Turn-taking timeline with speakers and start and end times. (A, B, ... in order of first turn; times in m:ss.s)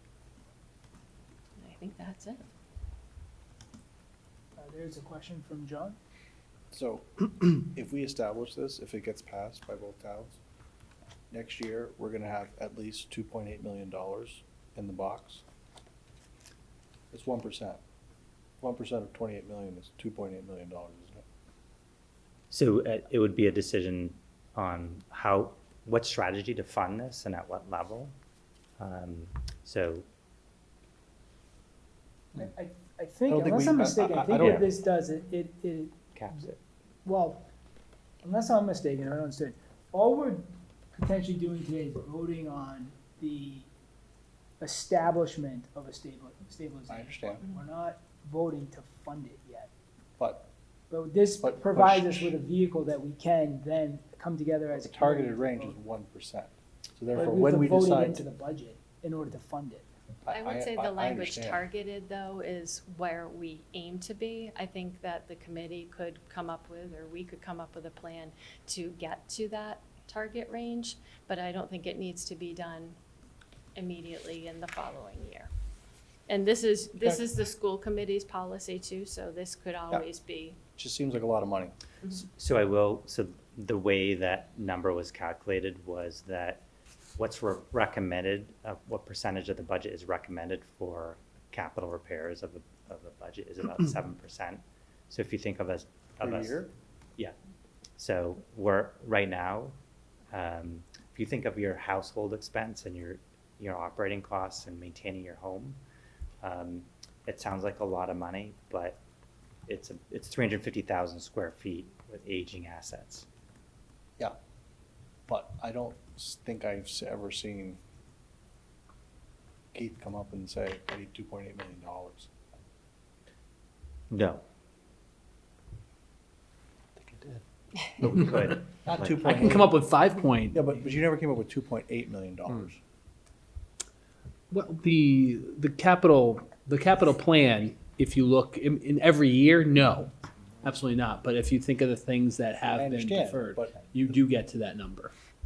0:01.6-0:02.4 A
0:04.6-0:06.0 B
0:06.7-0:10.4 C
0:11.3-0:15.4 C
0:17.1-0:17.8 C
0:18.6-0:21.2 C
0:22.5-0:28.1 D
0:28.8-0:30.1 D
0:32.3-0:36.5 B
0:33.3-0:34.6 C
0:34.4-0:34.7 D
0:36.2-0:36.6 D
0:37.0-0:37.5 B
0:38.2-0:43.7 B
0:44.6-0:49.7 B
0:46.9-0:47.5 C
0:50.2-0:50.5 C
0:50.9-0:55.8 B
0:51.4-0:52.3 C
0:54.8-0:58.2 C
0:57.1-0:59.9 B
1:00.2-1:01.7 C
1:00.3-1:13.0 A
1:13.8-1:15.5 A
1:16.3-1:20.6 A
1:20.8-1:21.8 C
1:22.1-1:26.6 D
1:27.2-1:37.3 D
1:36.2-1:36.7 C
1:38.0-1:39.8 D
1:40.3-1:45.8 D
1:46.4-1:49.0 D
1:49.7-1:53.3 D
1:55.3-1:57.8 C
1:59.7-2:02.3 C
2:04.1-2:04.4 D
2:07.1-2:07.4 E
2:08.0-2:09.4 D
2:08.0-2:08.4 E
2:08.8-2:09.8 C
2:09.2-2:10.7 E
2:10.5-2:12.8 C
2:14.5-2:20.1 E
2:20.6-2:25.1 E
2:22.8-2:23.8 C